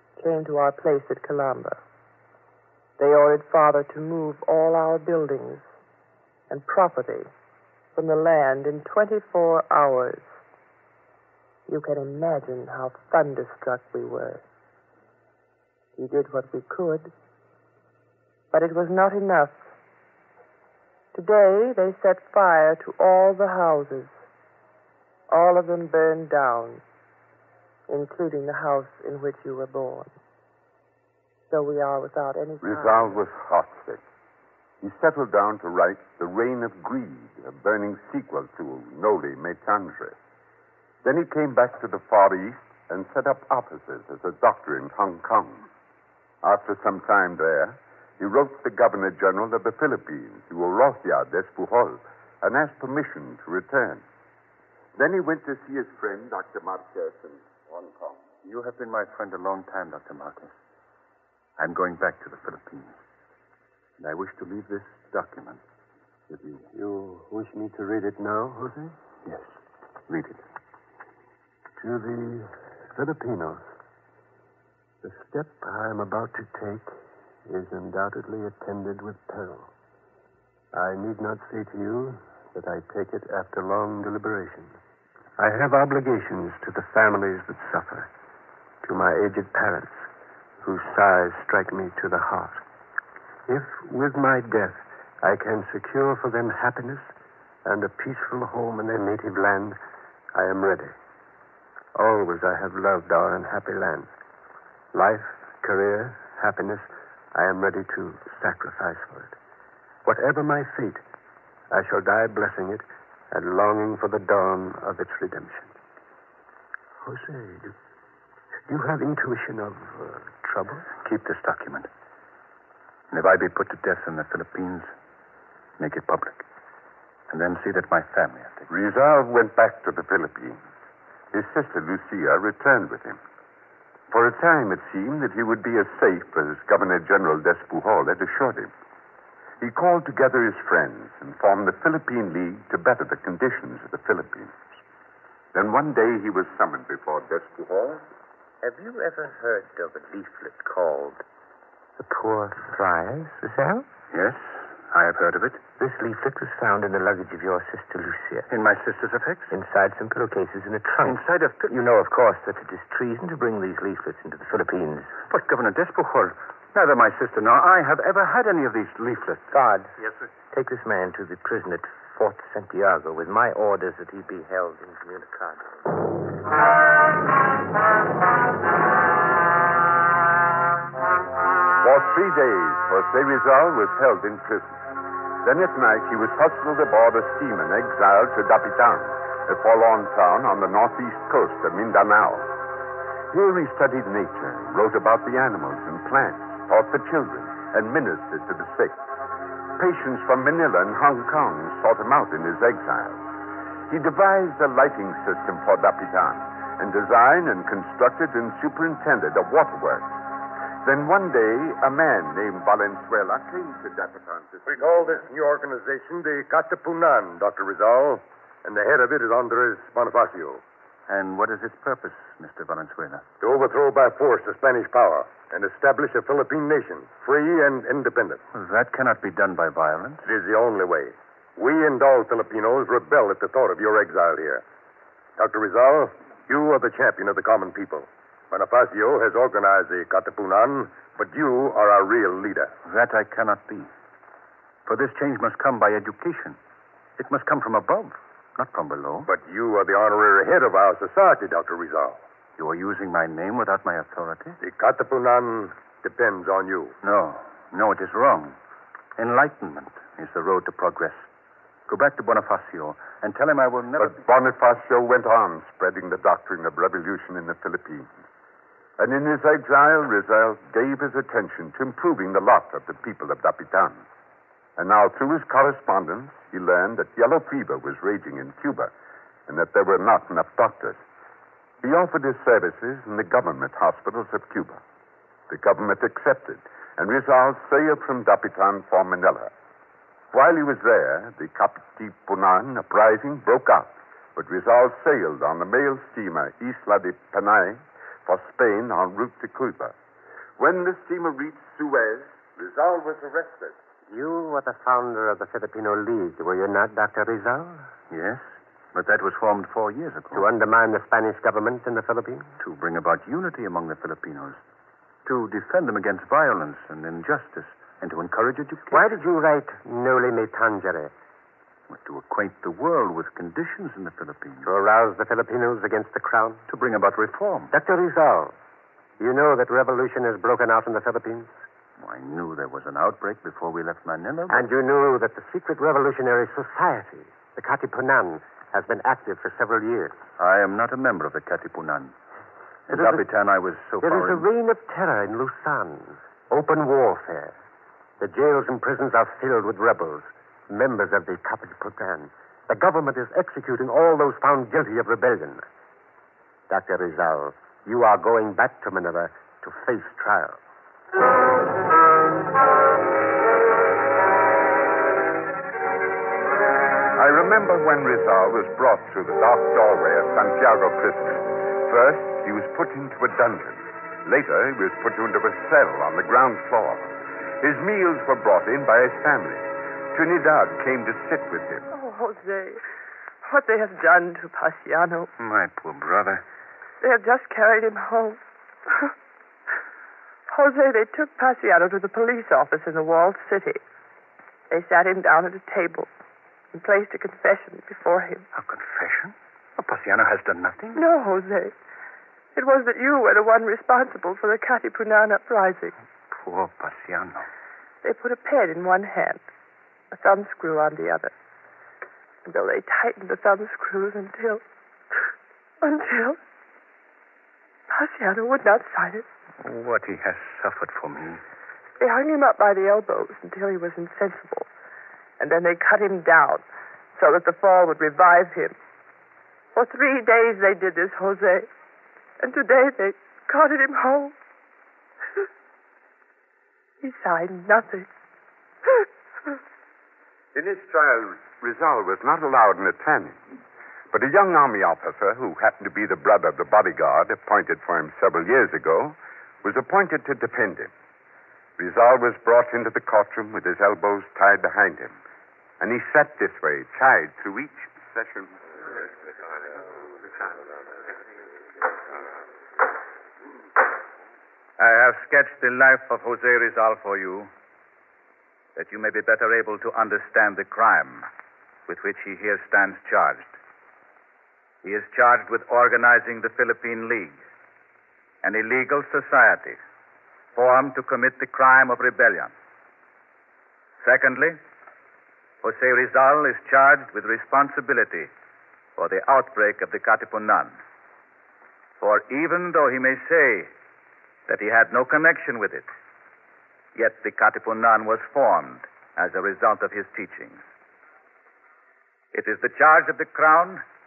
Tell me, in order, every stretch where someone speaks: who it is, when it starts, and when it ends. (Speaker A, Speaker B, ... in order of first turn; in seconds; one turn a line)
Speaker A: 0.2-1.8
Speaker A: 3.0-5.7
Speaker A: 6.5-7.3
Speaker A: 8.0-10.3
Speaker A: 11.7-14.4
Speaker A: 16.0-17.1
Speaker A: 18.5-19.7
Speaker A: 21.1-24.2
Speaker A: 25.3-26.8
Speaker A: 27.9-30.1
Speaker A: 31.5-33.2
Speaker B: 32.6-34.0
Speaker B: 34.8-40.2
Speaker B: 41.0-45.7
Speaker B: 46.4-54.0
Speaker B: 55.0-58.3
Speaker C: 58.4-60.5
Speaker C: 61.6-63.0
Speaker C: 64.0-65.6
Speaker D: 66.7-69.0
Speaker C: 69.3-69.5
Speaker C: 70.1-70.4
Speaker D: 71.8-73.7
Speaker D: 75.0-77.0
Speaker D: 77.5-79.7
Speaker D: 80.7-84.8
Speaker D: 85.4-88.1
Speaker D: 88.8-90.1
Speaker D: 90.6-92.6
Speaker D: 93.5-97.1
Speaker D: 97.7-99.8
Speaker D: 100.3-101.0
Speaker D: 102.0-104.1
Speaker D: 104.9-109.4
Speaker D: 110.0-111.0
Speaker D: 111.7-115.8
Speaker D: 117.0-117.7
Speaker D: 118.7-120.9
Speaker C: 121.0-121.9
Speaker C: 123.1-124.9
Speaker C: 125.8-126.5
Speaker C: 127.3-128.7
Speaker B: 128.7-130.6
Speaker B: 131.3-133.2
Speaker B: 134.1-138.7
Speaker B: 139.6-144.8
Speaker B: 145.5-148.1
Speaker E: 148.6-151.2
Speaker E: 152.0-153.9
Speaker C: 154.1-155.6
Speaker E: 155.8-158.5
Speaker C: 158.5-159.5
Speaker E: 159.5-165.1
Speaker C: 161.0-161.8
Speaker C: 165.3-169.6
Speaker E: 169.5-169.9
Speaker E: 170.5-175.9
Speaker B: 181.8-184.8
Speaker B: 185.4-192.5
Speaker B: 193.3-199.0
Speaker B: 199.8-203.2
Speaker B: 203.9-210.2
Speaker B: 210.8-215.2
Speaker F: 214.7-220.6
Speaker C: 221.1-223.2
Speaker F: 223.4-228.4
Speaker C: 228.5-230.3
Speaker F: 230.2-234.6
Speaker F: 235.4-242.7
Speaker C: 242.8-243.9
Speaker C: 244.9-246.6
Speaker C: 247.2-249.3
Speaker F: 249.3-252.2
Speaker C: 252.6-254.6
Speaker F: 254.6-257.0
Speaker C: 257.0-258.6
Speaker C: 259.2-261.3
Speaker C: 261.9-264.2
Speaker B: 264.0-268.2
Speaker B: 269.0-274.1
Speaker B: 274.8-278.9
Speaker B: 279.5-281.0
Speaker B: 281.8-284.8
Speaker B: 285.5-289.5
Speaker B: 290.3-300.0
Speaker B: 300.6-303.8
Speaker D: 304.1-307.9
Speaker C: 308.1-310.5
Speaker D: 310.3-312.5
Speaker C: 312.6-314.6
Speaker C: 315.2-319.1
Speaker D: 318.9-321.1
Speaker C: 321.9-324.7
Speaker D: 324.6-326.7
Speaker C: 326.7-327.8
Speaker D: 327.7-328.6
Speaker D: 329.2-331.6
Speaker C: 332.0-334.7
Speaker D: 334.5-340.3
Speaker C: 340.4-342.1
Speaker D: 342.9-343.3
Speaker C: 342.9-344.5
Speaker D: 344.0-347.6
Speaker D: 348.2-355.7
Speaker D: 356.7-360.6
Speaker B: 367.2-381.9
Speaker A: 381.9-382.8
Speaker A: 383.4-385.3
Speaker C: 385.4-386.4
Speaker A: 387.0-389.1
Speaker A: 390.5-393.8
Speaker A: 394.7-396.1
Speaker A: 396.7-398.5
Speaker C: 398.5-401.0
Speaker A: 400.9-401.7
Speaker A: 402.6-405.9
Speaker C: 406.3-407.5
Speaker A: 408.0-409.4
Speaker A: 410.1-411.3
Speaker A: 412.5-414.6
Speaker A: 415.8-416.4
Speaker A: 417.9-419.2
Speaker C: 419.6-421.4
Speaker A: 422.0-424.7
Speaker A: 425.4-428.8
Speaker A: 429.8-431.7
Speaker A: 432.4-434.4
Speaker A: 437.0-438.1
Speaker B: 440.5-443.4
Speaker B: 444.1-450.9
Speaker B: 451.8-455.2
Speaker B: 455.8-458.6
Speaker G: 464.8-467.5
Speaker G: 468.8-471.3
Speaker G: 471.9-473.6
Speaker G: 474.8-477.4
Speaker G: 478.4-479.8
Speaker G: 480.6-482.5
Speaker G: 484.0-484.6
Speaker G: 485.6-488.3
Speaker G: 489.0-490.8
Speaker G: 492.0-493.7
Speaker G: 494.5-495.9
Speaker G: 496.9-500.6
Speaker G: 502.3-503.8